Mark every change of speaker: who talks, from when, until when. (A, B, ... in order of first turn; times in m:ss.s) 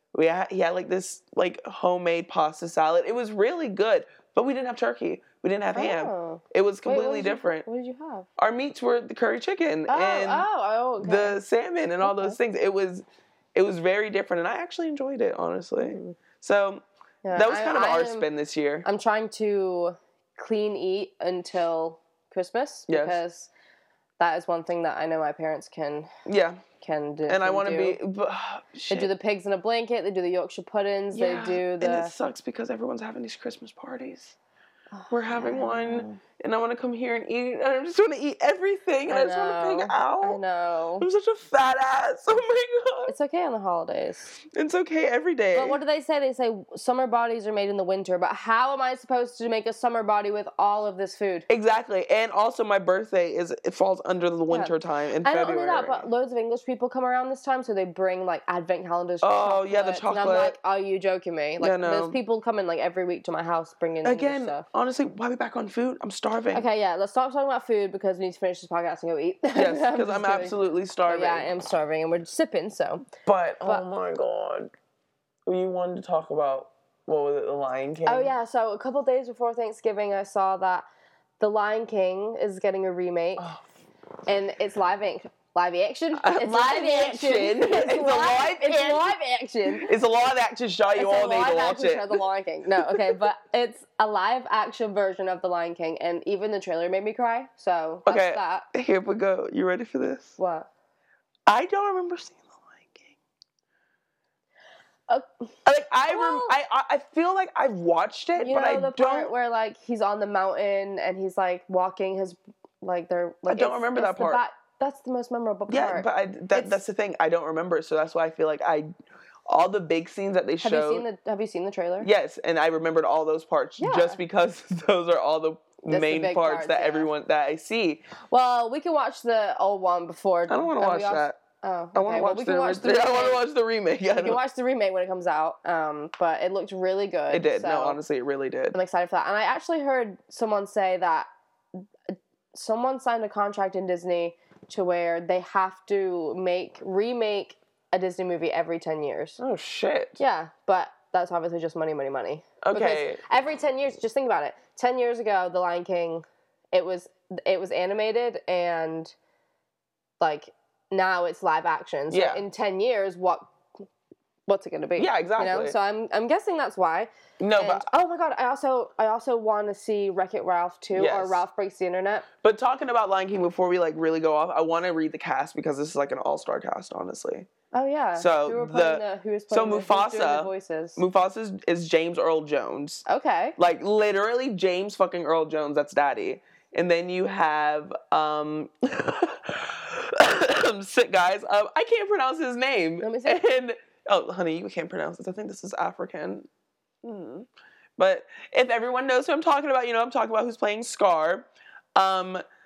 0:00.1-0:07.7 A
0:05.8-0:08.3 B
0:08.4-0:10.5 A
0:09.9-0:11.4 B
0:11.0-0:18.9 A
0:12.0-0:12.4 B
0:15.8-0:16.2 B
0:17.2-0:18.3 B
0:18.8-0:23.5 B
0:22.9-0:23.2 A
0:24.2-0:26.1 B
0:26.3-0:26.6 A
0:26.8-0:28.0 B
0:27.3-0:29.1 A
0:28.9-0:32.1 B
0:31.1-0:34.4 A
0:34.9-0:36.2 B
0:35.1-0:40.4 A
0:39.1-0:41.1 B
0:41.0-0:43.1 A
0:43.1-0:44.4 B
0:44.4-0:45.8 A
0:45.5-0:51.5 B
0:51.5-0:56.0 A
0:54.5-1:04.6 B
0:59.2-1:00.6 A
1:01.6-1:02.2 A
1:04.0-1:06.6 A
1:06.5-1:10.5 B
1:09.6-1:11.5 A
1:11.1-1:13.1 B
1:13.2-1:14.7 A
1:15.5-1:18.3 A
1:18.1-1:20.8 B
1:21.4-1:23.5 B
1:23.4-1:23.6 A
1:24.3-1:29.9 B
1:26.2-1:29.2 A
1:29.8-1:32.2 A
1:31.0-1:38.7 B
1:32.8-1:33.2 A
1:38.0-1:40.4 A
1:40.4-1:40.7 B
1:41.5-1:43.1 A
1:45.1-1:45.4 B
1:45.6-1:49.3 A
1:46.1-1:46.6 B
1:48.4-1:56.8 B
1:53.5-1:54.4 A
1:55.7-1:58.9 A
1:59.5-2:01.0 A
2:00.6-2:02.1 B
2:02.0-2:08.0 A
2:03.8-2:04.2 B
2:05.8-2:07.1 B
2:08.3-2:13.4 B
2:10.5-2:11.4 A
2:12.0-2:14.4 A
2:14.2-2:18.0 B
2:17.3-2:18.8 A
2:18.7-2:21.3 B
2:22.1-2:29.4 B
2:29.4-2:30.2 A
2:30.2-2:39.1 B
2:32.6-2:33.2 A
2:40.2-2:43.6 B
2:42.1-2:42.4 A
2:44.5-2:52.3 B
2:45.0-2:45.8 A
2:47.4-2:47.8 A
2:50.9-2:51.4 A
2:52.4-2:57.5 A
2:57.7-3:01.0 B
2:58.2-3:03.0 A
3:03.1-3:03.6 B
3:03.6-3:16.5 A
3:13.0-3:13.4 B
3:17.0-3:22.4 A